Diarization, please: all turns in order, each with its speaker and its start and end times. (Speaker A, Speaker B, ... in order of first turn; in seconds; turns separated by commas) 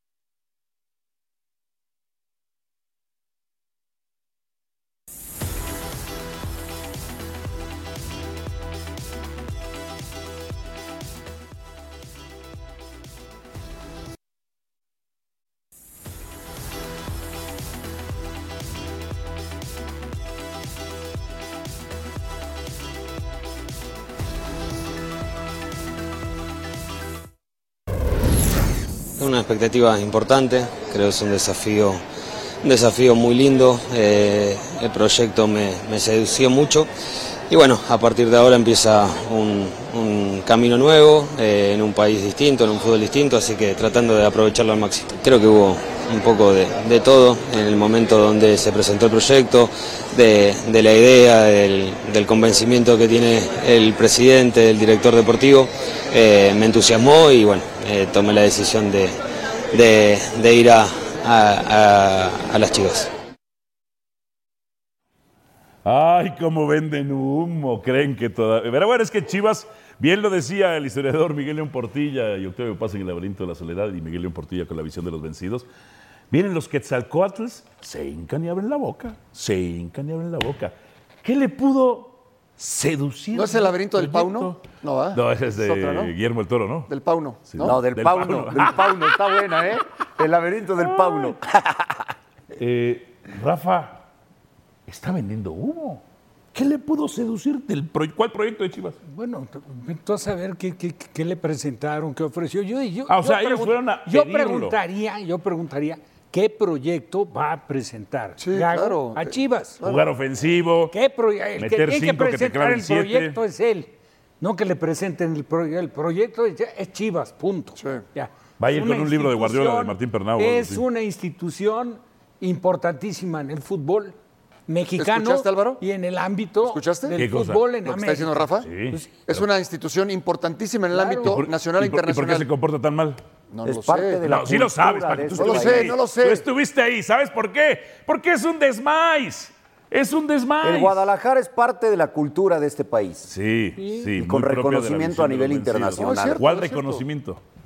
Speaker A: 29.2-32.0, Speaker A: 32.6-36.9, Speaker A: 37.5-59.2, Speaker A: 59.7-63.1, Speaker B: 65.8-75.7, Speaker B: 76.3-84.6, Speaker C: 83.3-86.1, Speaker B: 85.1-86.9, Speaker C: 86.9-87.8, Speaker B: 87.5-89.4, Speaker D: 87.6-91.9, Speaker B: 90.9-91.3, Speaker B: 92.6-94.0, Speaker B: 94.9-96.0, Speaker B: 96.5-99.0, Speaker E: 99.0-109.8, Speaker B: 103.1-104.8, Speaker C: 108.4-110.0, Speaker B: 109.8-110.9, Speaker E: 110.9-124.1, Speaker B: 111.6-113.4, Speaker C: 117.8-118.0, Speaker B: 118.6-120.8, Speaker E: 124.7-129.1, Speaker C: 125.0-125.8, Speaker C: 126.6-127.2, Speaker B: 127.2-127.6, Speaker C: 127.8-128.7, Speaker B: 128.6-129.4, Speaker C: 129.2-132.5, Speaker E: 130.9-131.4, Speaker B: 131.2-133.2, Speaker C: 133.5-134.2, Speaker D: 133.6-135.9, Speaker B: 134.2-141.1, Speaker C: 135.3-136.4, Speaker D: 140.6-143.3, Speaker B: 143.3-147.4, Speaker E: 143.8-144.1, Speaker D: 144.2-146.4, Speaker C: 146.0-147.0